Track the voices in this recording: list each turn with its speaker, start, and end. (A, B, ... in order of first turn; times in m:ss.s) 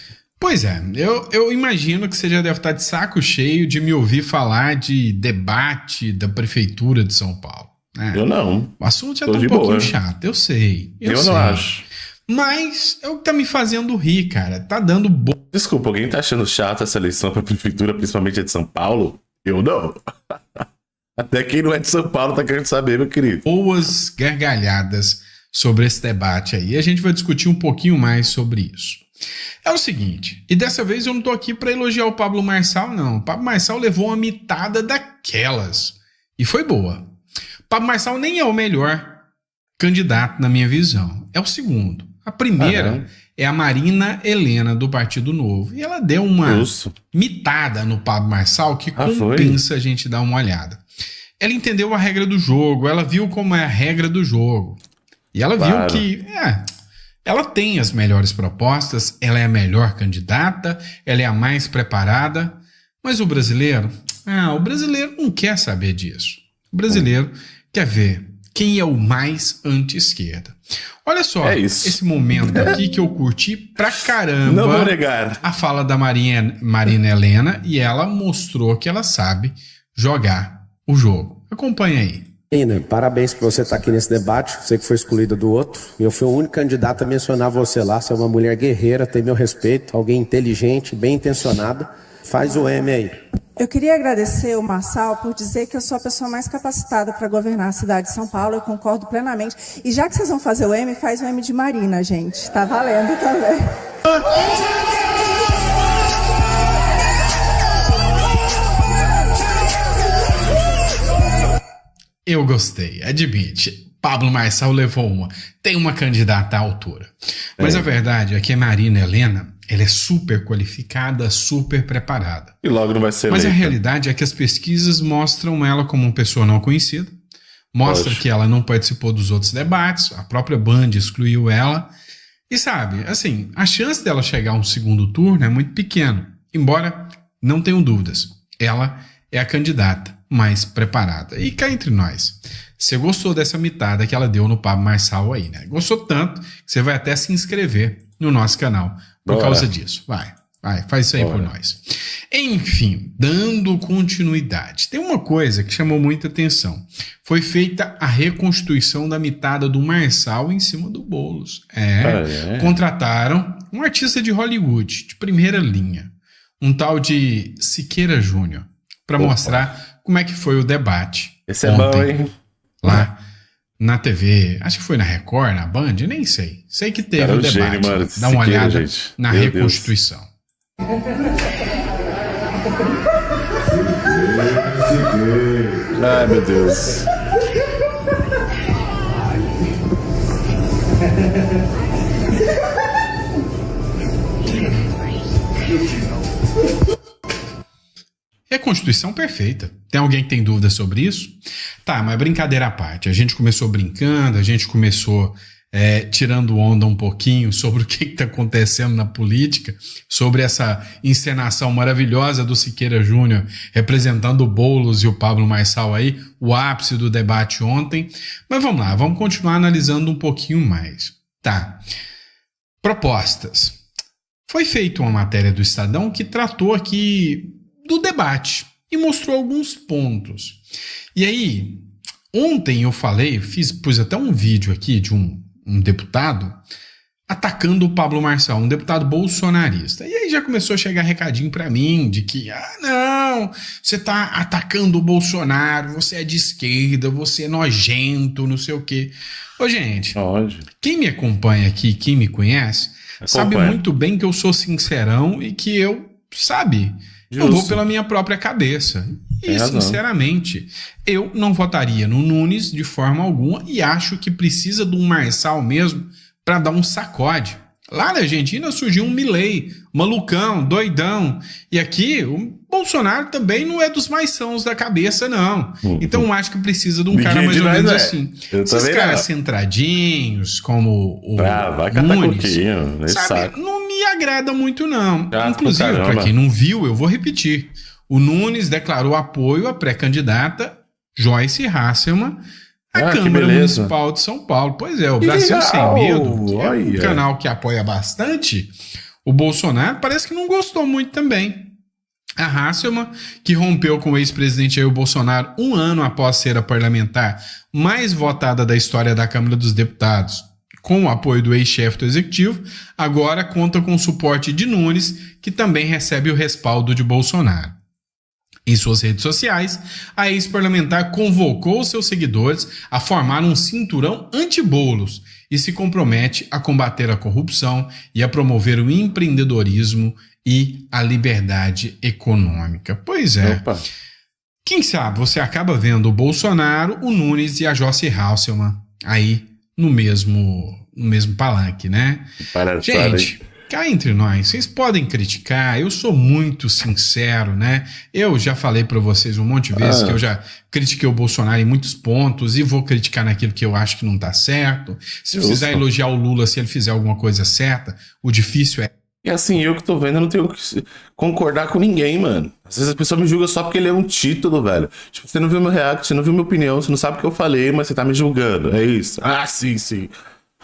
0:00.4-0:08.2 A
0:08.1-0:10.0 B
0:08.8-0:11.7 A
0:11.0-0:11.8 B
0:12.3-0:15.3 A
0:15.5-0:20.0 B
0:21.2-0:23.4 B
0:23.4-0:29.0 A
0:29.6-0:37.1 A
0:37.7-0:39.2 A
0:39.8-0:50.8 A
0:42.6-0:43.1 B
0:46.4-0:46.9 B
0:49.0-0:49.6 B
0:51.4-0:54.8 A
0:55.3-0:56.6 A
0:55.6-0:56.1 B
0:57.2-1:22.3 A
1:11.4-1:12.8 B
1:14.4-1:15.4 B
1:22.5-1:33.2 C
1:33.6-1:43.6 D
1:52.2-2:02.6 A
1:57.6-1:57.9 B
2:02.6-2:03.8 B
2:03.3-2:07.1 A
2:07.7-2:11.9 A
2:07.8-2:08.2 B
2:12.5-2:52.2 A
2:29.2-2:29.7 B
2:31.2-2:31.5 B
2:42.0-2:42.8 B
2:49.2-2:49.7 B
2:51.5-2:52.3 B
2:52.8-2:53.2 A
2:53.8-3:00.3 A
2:57.2-2:59.9 B
3:05.9-3:07.0 B
3:18.5-3:41.8 A
3:42.8-3:43.8 A
3:44.5-3:50.6 A
3:51.1-3:56.6 A
3:57.3-4:10.2 A
4:10.2-4:10.6 B
4:10.8-4:52.4 A
4:13.2-4:13.8 B
4:17.3-4:17.8 B
4:19.4-4:20.0 B
4:35.8-4:36.3 B
4:37.1-4:39.2 B
4:41.4-4:43.5 B
4:45.3-4:46.3 B
4:52.9-4:58.7 A
4:52.9-4:53.9 B
4:55.2-4:57.2 B
4:59.2-5:01.7 A
5:02.4-5:17.8 A
5:18.7-5:33.6 A
5:33.4-5:33.8 B
5:34.6-5:42.2 A
5:42.5-5:43.3 B
5:42.8-5:58.9 A
5:49.8-5:50.2 B
5:55.3-5:55.8 B
5:59.2-6:10.1 B